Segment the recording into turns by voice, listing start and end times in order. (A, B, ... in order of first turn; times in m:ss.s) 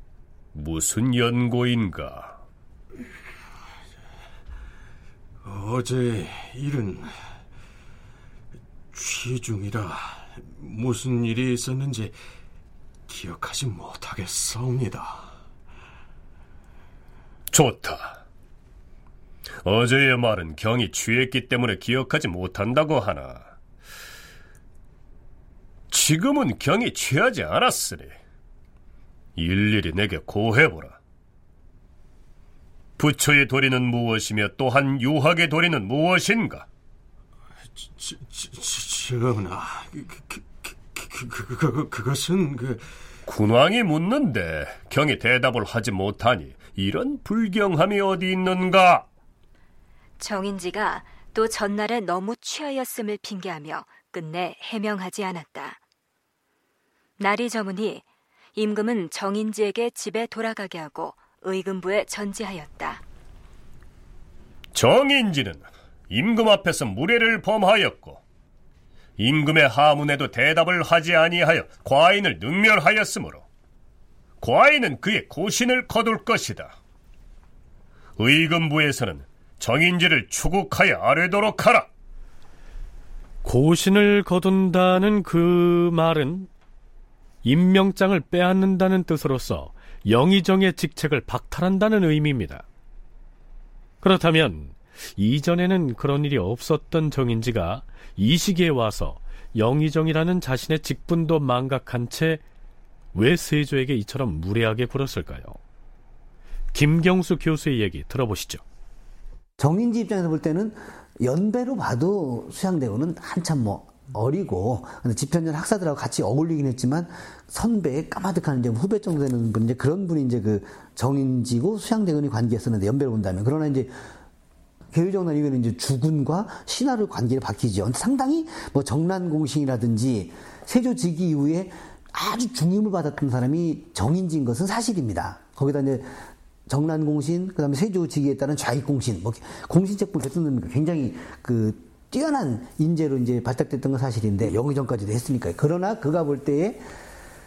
0:00.5-0:02.4 A
0:05.4-0:07.1 B
0:08.9-0:12.2 B
0:13.1-0:15.3 B
0:17.5-0:18.2 A
0:19.6-0:23.5 A
0:25.9-0:28.2 A
0:29.4-0:31.0 A
0:33.0-0:36.6 A
0:37.9-0:42.8 B
0:43.2-0:49.1 A
0:50.2-0:55.8 C
0:57.2-0:58.0 C
0:58.5-1:03.0 C
1:04.7-1:08.2 A
1:09.2-1:13.4 A
1:14.4-1:16.8 A
1:18.2-1:21.9 A
1:23.4-1:26.5 D
1:27.4-1:32.6 D
1:34.0-1:42.4 D
1:43.1-1:45.6 D
1:46.7-1:48.6 D
1:49.6-2:04.0 E
2:04.9-2:26.8 E